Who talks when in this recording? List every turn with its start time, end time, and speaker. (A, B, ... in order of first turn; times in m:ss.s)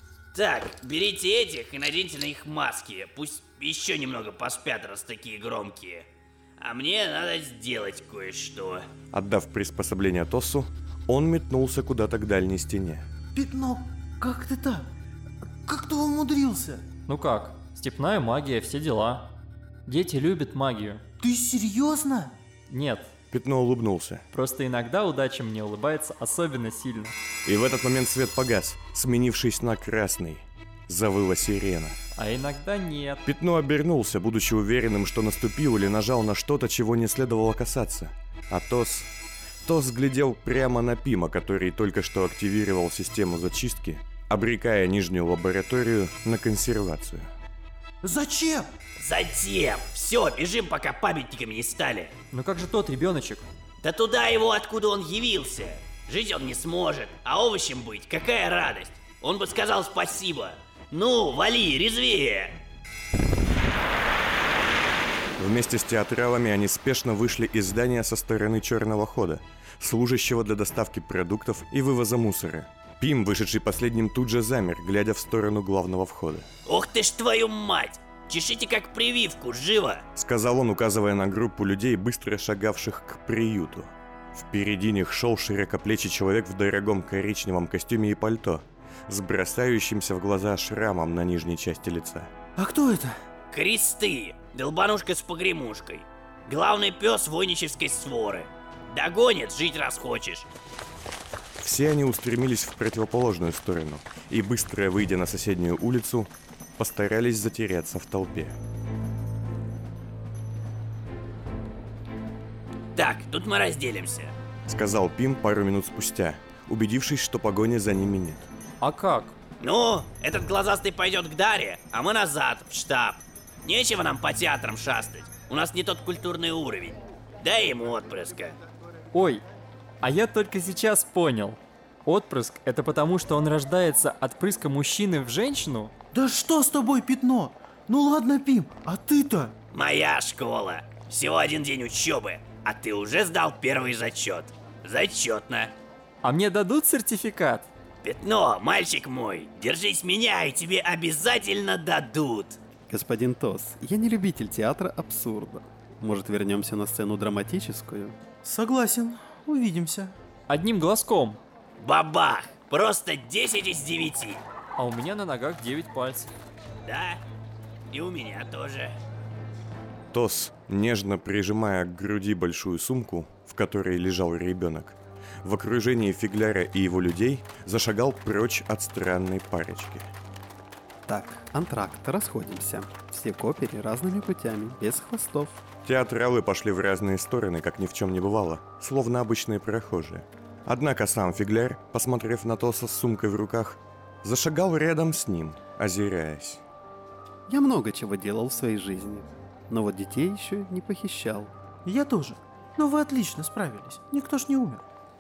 0:00.3-0:06.1 A
0:06.6-0:08.8 A
0:09.1-0:13.1 B
0:13.3-0:14.9 C
0:15.6-0:16.9 C
0:17.1-0:19.3 D
0:19.9-0:21.0 D
0:21.2-0:22.4 C
0:22.7-0:23.1 D
0:23.3-0:24.2 B
0:24.3-0:27.2 D
0:27.5-0:32.0 B
0:32.2-0:33.2 D
0:33.2-0:39.1 B
0:39.6-0:47.3 B
0:48.0-0:48.7 C
0:49.0-0:52.1 A
0:52.3-0:53.5 D
0:53.8-1:02.6 A
1:05.4-1:16.5 B
1:16.7-1:20.0 A
1:20.2-1:32.3 B
1:32.6-1:33.2 C
1:33.5-1:40.5 A
1:41.6-1:48.6 B
1:53.0-1:54.3 A
1:54.7-1:58.5 B
1:58.8-1:59.4 D
1:59.6-2:08.6 A
2:09.1-2:09.4 D
2:10.0-2:15.9 D
2:16.1-2:19.6 C
2:19.7-2:25.7 A
2:26.2-2:27.7 D
2:28.0-2:32.6 A
2:32.9-2:38.2 E
2:38.4-2:40.2 C
2:40.5-2:41.4 D
2:41.8-2:44.4 A
2:44.8-2:46.3 D
2:46.8-2:47.2 A
2:47.9-2:49.0 A
2:50.1-3:00.1 B
3:01.1-3:05.6 E
3:05.8-3:16.6 B
3:17.5-3:21.5 E
3:21.8-3:24.8 C